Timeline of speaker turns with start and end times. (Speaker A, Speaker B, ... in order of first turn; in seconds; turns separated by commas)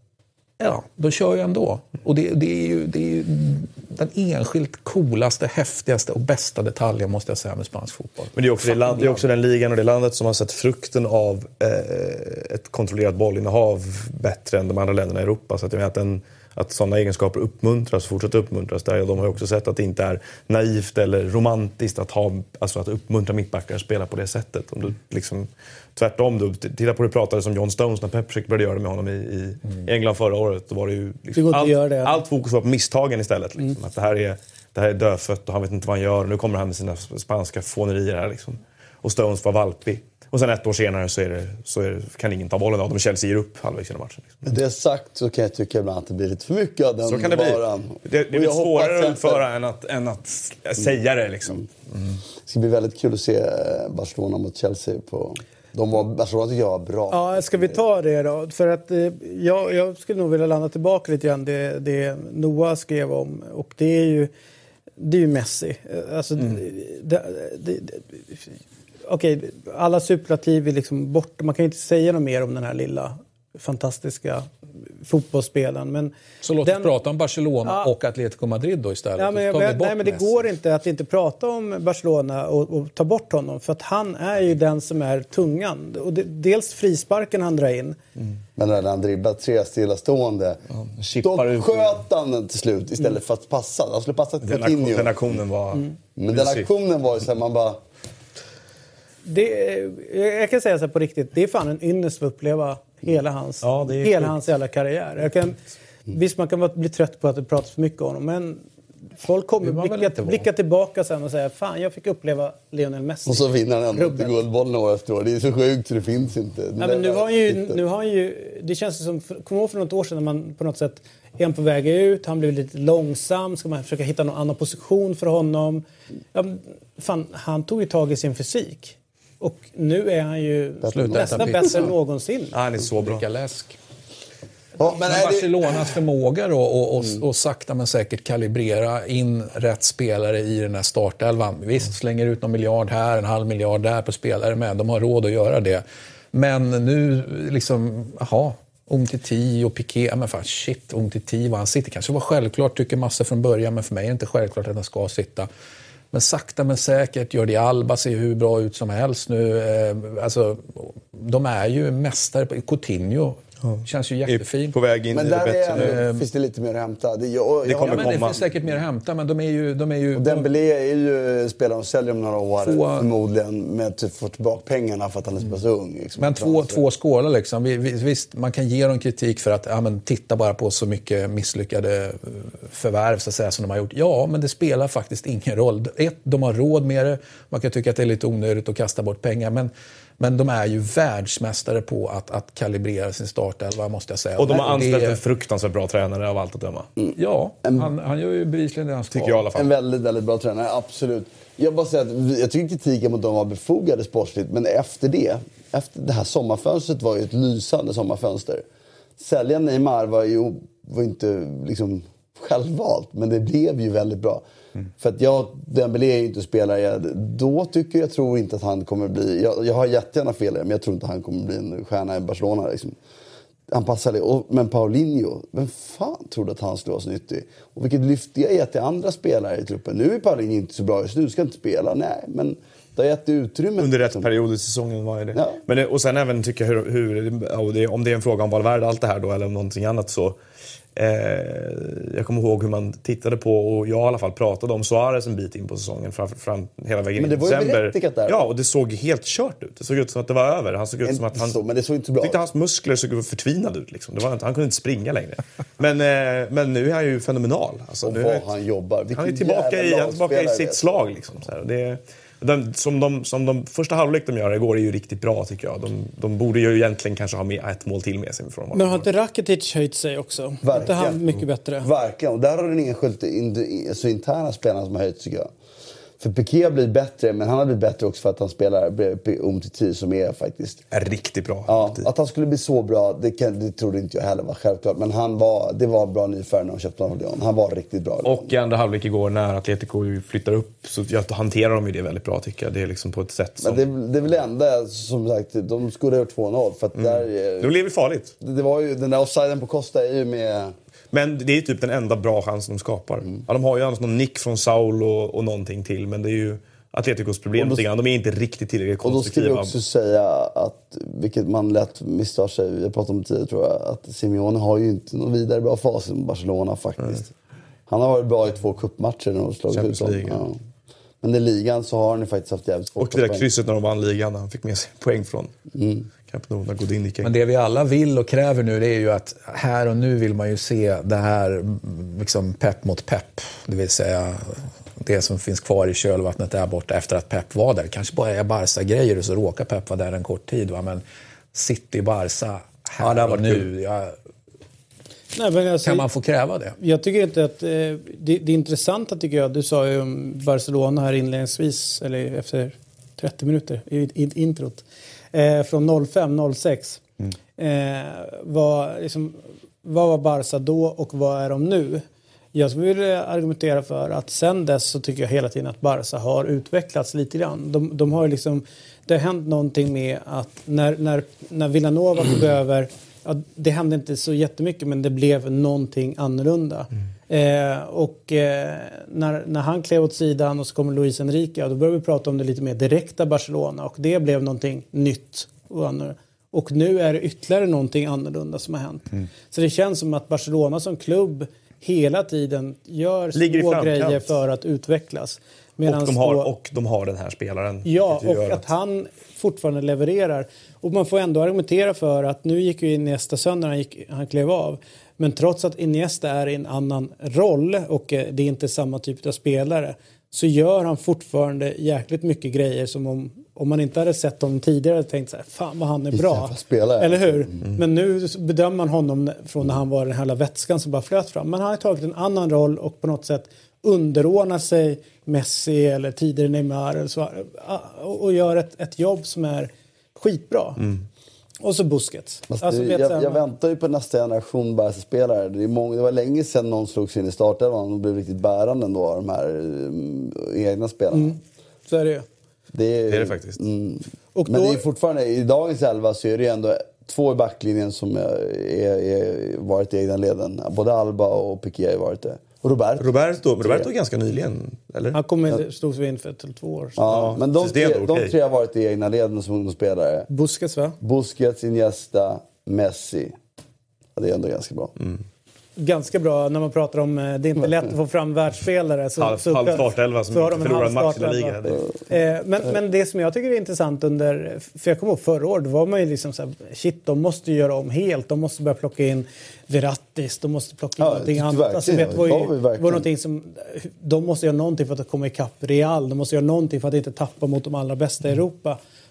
Speaker A: 0.6-9.3, Speaker B: 8.3-44.4, Speaker C: 31.3-32.2, Speaker D: 44.4-49.4, Speaker B: 47.0-52.2, Speaker D: 52.5-57.8, Speaker C: 57.1-64.3, Speaker C: 65.0-68.5, Speaker C: 69.1-74.5, Speaker C: 75.0-76.9, Speaker A: 76.4-80.5, Speaker C: 77.6-77.9, Speaker C: 79.2-88.0, Speaker D: 88.6-90.6, Speaker B: 90.7-92.0, Speaker D: 91.2-95.4, Speaker B: 94.4-96.7, Speaker D: 96.2-97.8, Speaker C: 99.2-108.6, Speaker B: 103.6-104.4, Speaker C: 109.2-114.4, Speaker A: 109.6-110.5, Speaker D: 113.3-117.8, Speaker C: 116.8-132.6, Speaker D: 130.8-131.8, Speaker A: 130.9-131.9, Speaker B: 132.5-133.2, Speaker A: 132.9-133.8, Speaker D: 134.8-135.9, Speaker A: 134.8-155.5, Speaker A: 156.1-164.8, Speaker B: 163.6-166.0, Speaker D: 165.1-168.5, Speaker A: 165.7-166.2, Speaker B: 167.7-168.4, Speaker A: 167.7-170.5, Speaker D: 170.1-176.8, Speaker A: 172.6-173.1, Speaker A: 176.2-195.2, Speaker B: 194.4-196.9, Speaker A: 197.2-199.5, Speaker B: 199.1-199.7, Speaker D: 199.5-208.6, Speaker D: 209.2-214.4, Speaker D: 215.0-222.9, Speaker D: 223.7-234.3, Speaker B: 233.8-240.4, Speaker B: 240.9-251.6, Speaker D: 247.2-248.5, Speaker D: 251.1-252.4, Speaker B: 252.2-258.5, Speaker D: 258.0-260.8, Speaker B: 259.1-269.1, Speaker C: 268.7-271.9, Speaker D: 270.6-271.2, Speaker D: 271.8-275.5, Speaker D: 276.2-280.8, Speaker B: 280.9-282.1, Speaker D: 281.6-288.5, Speaker B: 288.2-293.8, Speaker D: 293.6-297.7, Speaker B: 296.9-298.3, Speaker D: 298.4-300.7, Speaker B: 301.1-309.7, Speaker D: 307.6-307.8, Speaker D: 309.0-317.3, Speaker D: 317.9-320.6, Speaker B: 319.7-320.4, Speaker D: 321.2-323.4, Speaker B: 323.0-325.5, Speaker D: 325.7-326.1, Speaker B: 326.3-327.3, Speaker A: 327.2-341.0, Speaker A: 341.5-344.1, Speaker B: 343.0-343.6, Speaker C: 345.3-346.1, Speaker A: 345.8-346.8, Speaker C: 346.8-357.0, Speaker C: 357.6-362.0, Speaker C: 362.5-396.5, Speaker B: 393.3-394.4, Speaker B: 395.9-398.7, Speaker C: 397.9-430.8, Speaker D: 416.1-417.6, Speaker C: 431.6-433.4, Speaker D: 432.5-441.4, Speaker C: 441.1-442.3, Speaker D: 442.7-453.9, Speaker B: 443.1-443.6, Speaker C: 444.3-444.8, Speaker B: 453.0-455.2, Speaker C: 455.1-457.0, Speaker D: 457.0-460.3, Speaker B: 457.1-458.3, Speaker C: 460.3-461.0, Speaker D: 461.0-463.4, Speaker D: 464.1-464.9, Speaker C: 465.8-488.8, Speaker B: 469.2-471.8, Speaker D: 481.0-483.1